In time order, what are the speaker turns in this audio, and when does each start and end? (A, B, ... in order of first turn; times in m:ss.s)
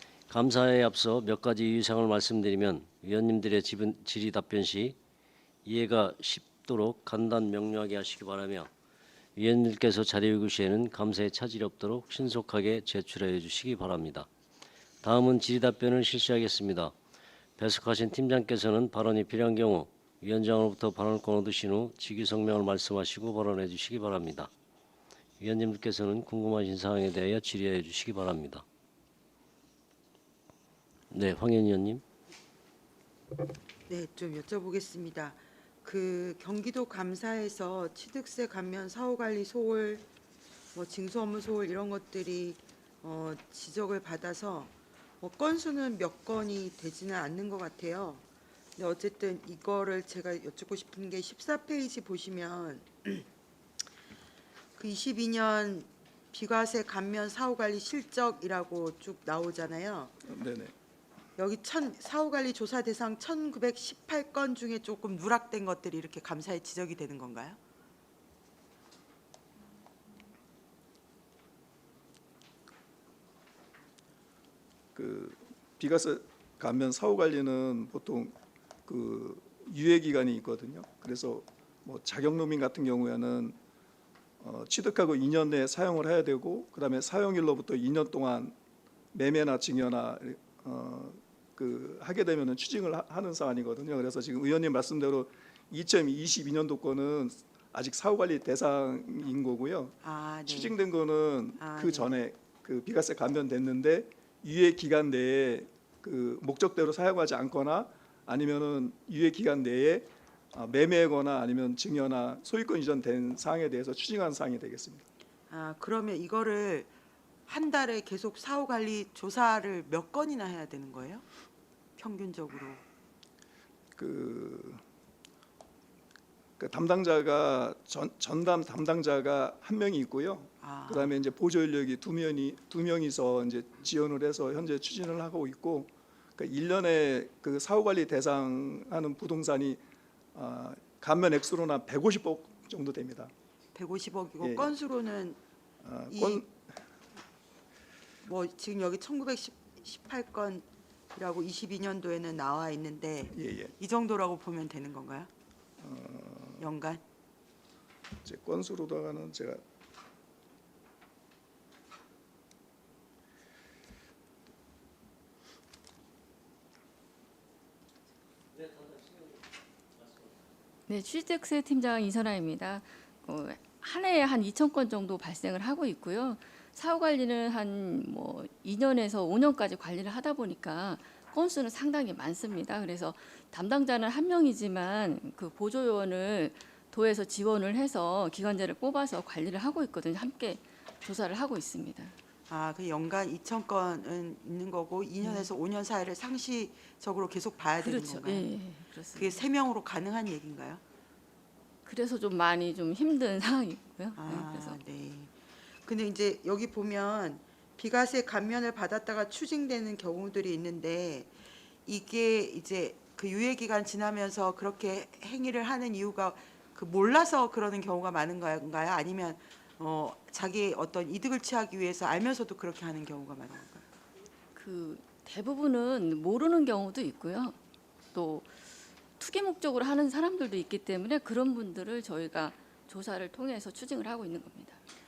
0:00.3-0:05.0 A
0:05.6-0:08.7 A
0:09.4-0:14.3 A
0:15.0-0:16.9 A
0:17.6-0:24.5 A
0:25.4-0:28.6 A
0:31.1-0:32.0 A
0:33.9-0:40.0 B
0:40.7-0:48.2 B
0:48.8-0:53.2 B
0:54.8-1:00.2 B
1:00.2-1:00.7 C
1:01.4-1:07.6 B
1:15.0-1:18.3 C
1:18.9-1:23.6 C
1:24.4-1:28.5 C
1:29.1-1:55.0 C
1:40.0-1:40.8 B
1:41.6-1:42.1 B
1:55.5-1:56.9 B
1:57.5-2:01.2 B
2:02.0-2:02.8 B
2:04.0-2:04.8 C
2:06.6-2:19.8 C
2:10.6-2:11.1 B
2:20.4-2:23.3 C
2:23.7-2:25.4 B
2:24.4-2:24.7 C
2:25.8-2:26.5 C
2:26.1-2:26.4 B
2:28.3-2:35.3 B
2:33.3-2:33.7 C
2:35.8-2:36.6 C
2:36.6-2:37.0 B
2:38.2-2:39.6 C
2:50.9-3:12.1 D
3:12.5-3:18.6 B
3:17.8-3:19.4 D
3:19.2-3:20.8 B
3:21.8-3:24.8 D
3:24.2-3:31.3 B
3:31.9-3:43.8 B
3:44.6-3:47.6 D
3:48.1-3:48.5 D
3:49.2-3:54.8 D